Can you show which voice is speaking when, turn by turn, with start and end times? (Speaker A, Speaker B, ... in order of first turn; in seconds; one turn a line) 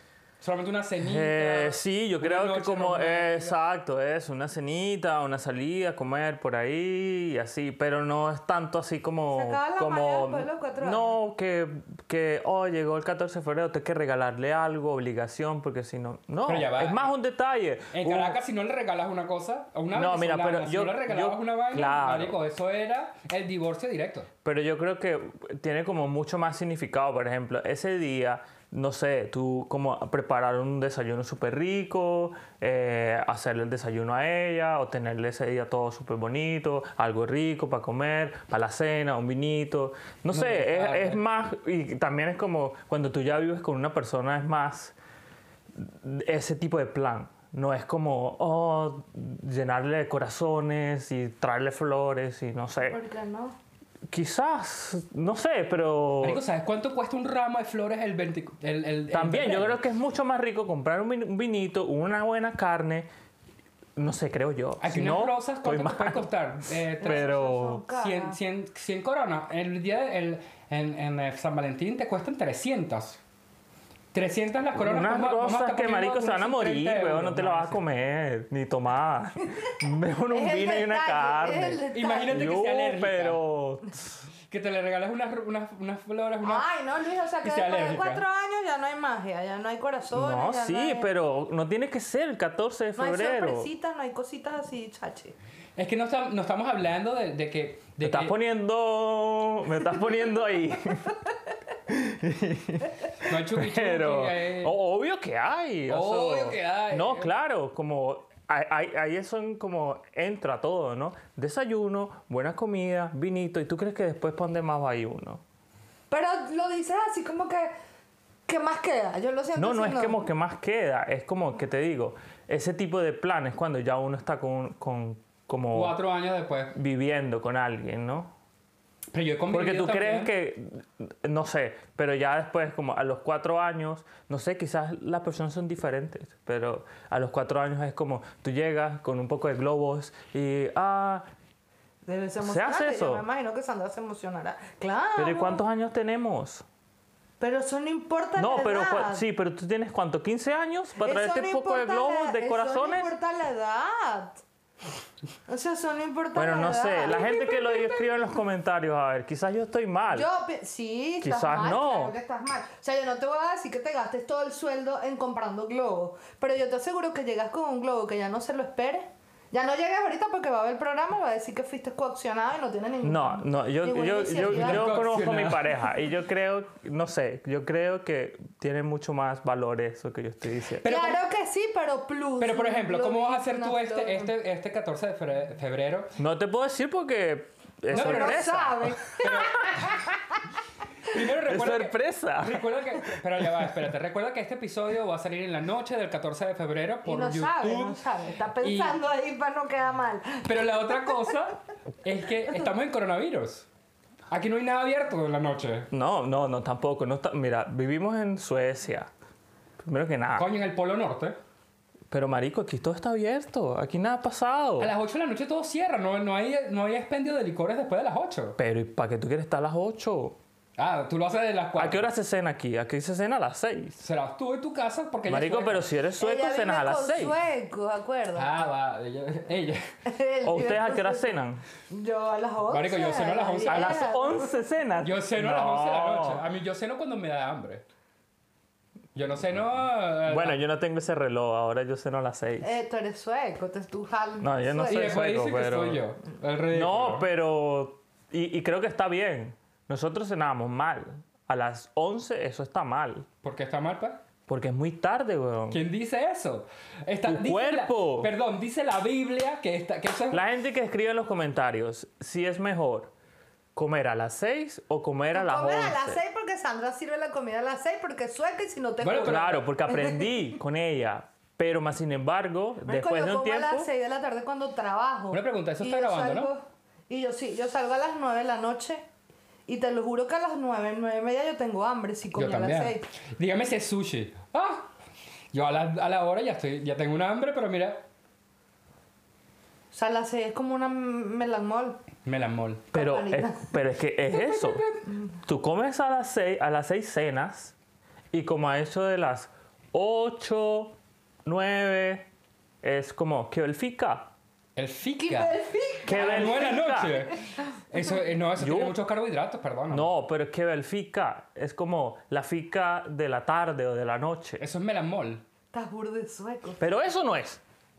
Speaker A: 0.4-3.5
Speaker B: 1.0-18.4
Speaker C: 9.3-11.2
Speaker A: 16.4-17.1
Speaker A: 17.9-24.3
Speaker B: 19.9-22.4
Speaker B: 24.4-44.9
Speaker A: 40.3-41.2
Speaker B: 45.8-53.0
Speaker C: 52.9-53.5
Speaker B: 54.1-56.4
Speaker A: 56.2-59.8
Speaker B: 59.1-63.1
Speaker B: 64.0-66.3
Speaker A: 64.8-67.4
Speaker C: 67.0-68.4
Speaker B: 67.0-67.8
Speaker A: 67.9-73.2
Speaker A: 74.1-77.8
Speaker B: 74.7-84.2
Speaker C: 80.3-82.5
Speaker A: 81.9-83.4
Speaker A: 84.5-86.7
Speaker C: 86.4-91.1
Speaker A: 87.4-88.2
Speaker B: 90.1-93.7
Speaker C: 93.0-95.3
Speaker A: 95.8-98.3
Speaker B: 98.0-101.2
Speaker B: 101.9-115.4
Speaker A: 103.2-104.7
Speaker A: 105.9-107.3
Speaker C: 116.1-117.7
Speaker C: 118.5-120.2
Speaker B: 119.5-126.0
Speaker A: 125.7-126.7
Speaker B: 126.7-128.3
Speaker A: 129.1-130.3
Speaker B: 129.5-141.2
Speaker C: 142.0-145.6
Speaker B: 142.4-143.2
Speaker B: 145.2-146.6
Speaker C: 147.4-149.2
Speaker B: 148.3-153.1
Speaker C: 151.0-154.4
Speaker C: 155.5-158.3
Speaker B: 156.3-160.3
Speaker C: 160.1-175.0
Speaker B: 161.2-162.1
Speaker B: 173.0-180.9
Speaker A: 174.4-175.7
Speaker A: 180.8-181.2
Speaker C: 180.8-184.3
Speaker A: 182.4-186.1
Speaker B: 186.2-189.3
Speaker C: 187.9-190.0
Speaker A: 187.9-188.5
Speaker A: 189.1-189.8
Speaker A: 191.1-198.0
Speaker B: 191.4-192.7
Speaker C: 197.0-201.3
Speaker A: 198.6-199.0
Speaker A: 200.4-203.7
Speaker A: 204.3-205.9
Speaker B: 205.9-209.1
Speaker B: 209.8-210.5
Speaker A: 210.3-211.3
Speaker B: 212.1-214.9
Speaker A: 214.8-218.6
Speaker B: 218.6-220.4
Speaker A: 220.8-222.0
Speaker B: 221.8-224.0
Speaker A: 224.0-225.8
Speaker B: 225.2-227.3
Speaker C: 226.2-228.6
Speaker A: 228.3-229.9
Speaker C: 230.0-231.3
Speaker B: 230.4-231.6
Speaker C: 231.9-234.5
Speaker A: 232.7-234.1
Speaker B: 233.7-236.4
Speaker A: 235.0-237.8
Speaker A: 239.1-240.6
Speaker B: 240.2-242.7
Speaker C: 242.6-245.1
Speaker B: 244.4-246.1
Speaker A: 244.8-247.3
Speaker B: 246.7-253.3
Speaker A: 253.4-254.2
Speaker B: 254.5-255.8
Speaker A: 255.7-260.4
Speaker B: 257.2-258.3
Speaker B: 260.3-263.1
Speaker B: 263.7-266.2
Speaker C: 265.3-270.2
Speaker A: 269.0-269.6
Speaker B: 269.2-273.9
Speaker C: 272.9-279.0
Speaker A: 275.3-276.5
Speaker C: 279.7-283.0
Speaker A: 282.4-284.9
Speaker A: 285.5-288.0
Speaker C: 289.9-292.0
Speaker A: 292.2-292.9
Speaker C: 292.9-293.7
Speaker B: 292.9-294.8
Speaker C: 294.6-295.2
Speaker B: 295.4-297.7
Speaker B: 298.3-302.2
Speaker B: 302.8-304.3
Speaker A: 304.8-310.1
Speaker C: 305.2-307.0
Speaker B: 306.1-307.2
Speaker B: 308.6-308.9
Speaker B: 309.9-314.6
Speaker A: 314.6-315.4
Speaker C: 315.7-316.8
Speaker B: 316.8-317.6